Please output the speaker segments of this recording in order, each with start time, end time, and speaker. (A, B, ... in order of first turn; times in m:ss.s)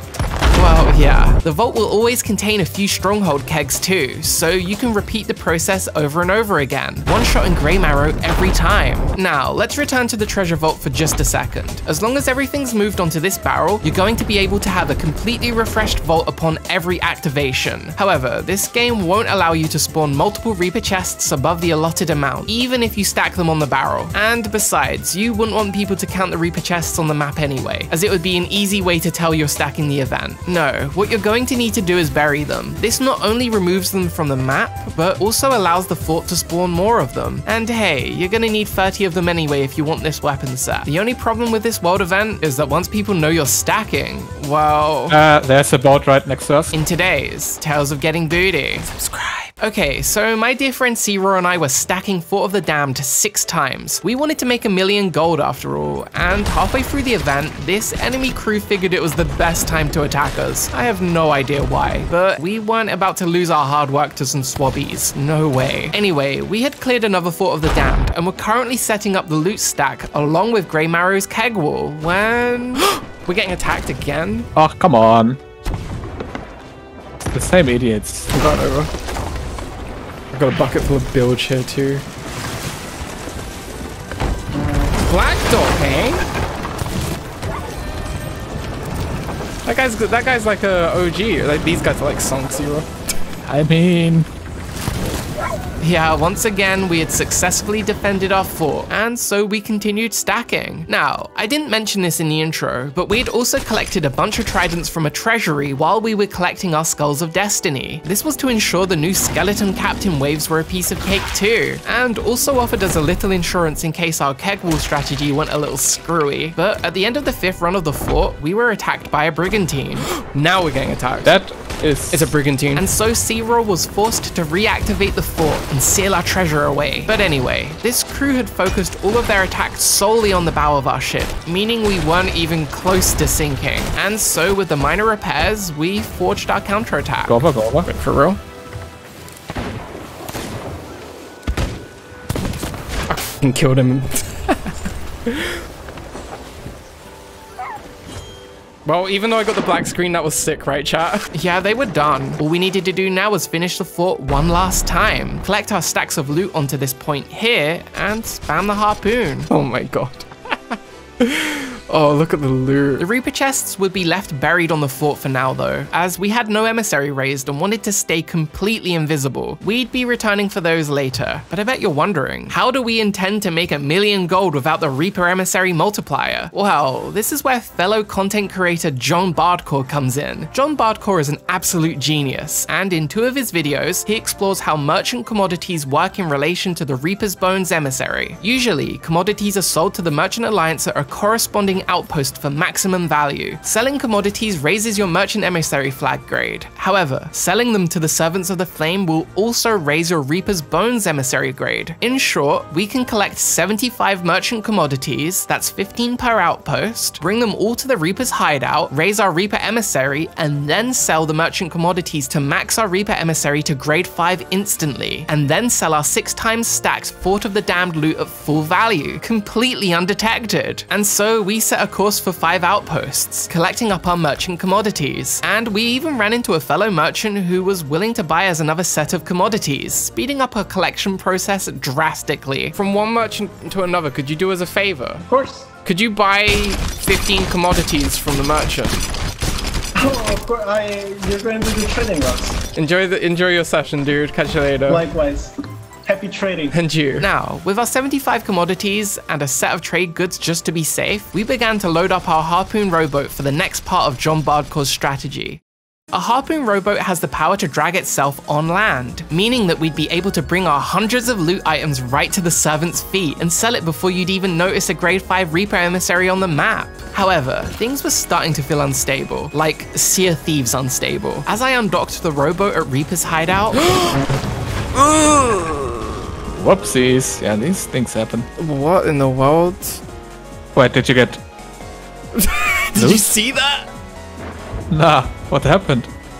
0:00.5-0:45.2 A
0:45.1-0:46.7 B
0:46.7-0:48.9 A
0:48.9-0:49.5 C
0:49.6-1:14.5 A
1:14.5-1:15.4 B
1:17.3-1:18.3 B
1:18.3-1:18.9 C
1:20.3-1:22.0 C
1:25.0-1:26.2 C
1:29.6-1:32.9 C
1:33.4-1:34.3 B
1:35.8-2:00.1 A
2:00.1-2:01.3 C
2:01.2-2:02.3 B
2:02.1-2:02.8 C
2:02.7-2:17.4 A
2:17.2-2:17.9 B
2:17.8-2:18.4 C
2:23.1-2:24.7 C
2:25.2-2:25.5 C
2:28.8-2:31.3 C
2:31.3-2:39.5 A
2:39.5-2:43.0 C
2:43.0-3:52.8 A
3:52.8-3:55.2 C
3:55.3-3:55.7 D
3:55.8-3:59.0 C
4:00.0-4:02.6 D
4:02.7-4:05.1 C
4:04.9-4:05.5 D
4:06.0-4:06.7 D
4:06.7-4:07.3 C
4:07.2-4:33.9 A
4:33.8-4:34.2 C
4:34.9-4:36.0 C
4:36.5-4:38.5 B
4:38.6-4:40.0 C
4:40.7-4:41.4 B
4:42.3-4:43.9 C
4:43.0-4:43.3 B
4:44.9-4:46.1 B